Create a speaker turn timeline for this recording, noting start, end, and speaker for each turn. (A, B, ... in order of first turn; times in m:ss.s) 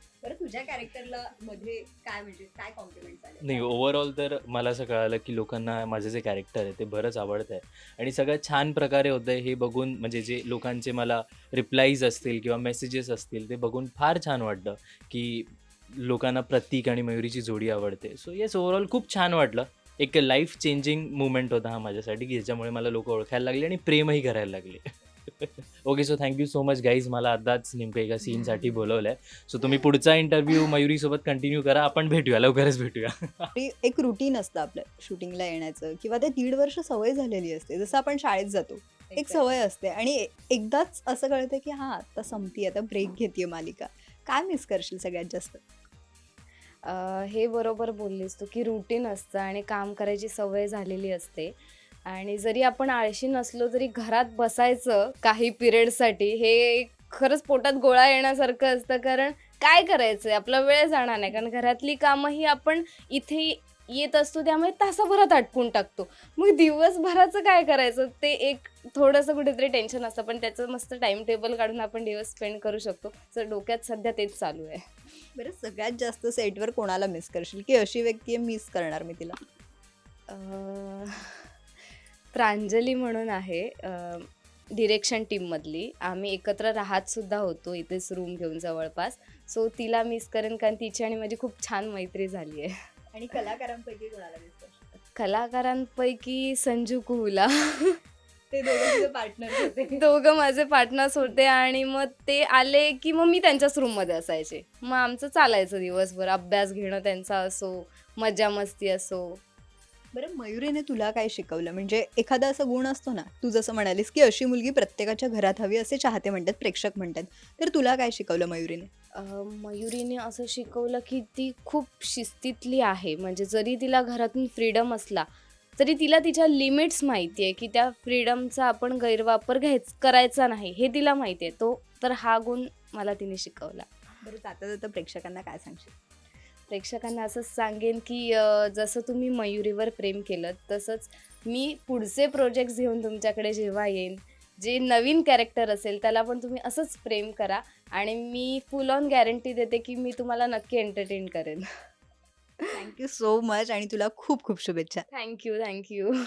0:00.2-0:03.6 A
0:03.4-0:33.5 B
0:33.6-0:45.6 A
0:39.1-0:39.6 C
0:46.8-0:51.6 C
0:52.1-1:14.8 C
1:15.4-1:19.4 A
1:20.3-1:21.4 C
1:22.3-1:32.7 C
1:33.1-1:34.7 A
1:35.1-1:38.0 C
1:38.5-1:40.0 A
1:39.9-1:49.4 C
1:50.1-1:58.9 A
1:59.2-2:05.3 C
2:05.8-2:13.9 C
2:14.2-2:15.9 A
2:16.7-2:31.6 C
2:32.7-2:35.0 A
2:35.1-2:36.1 C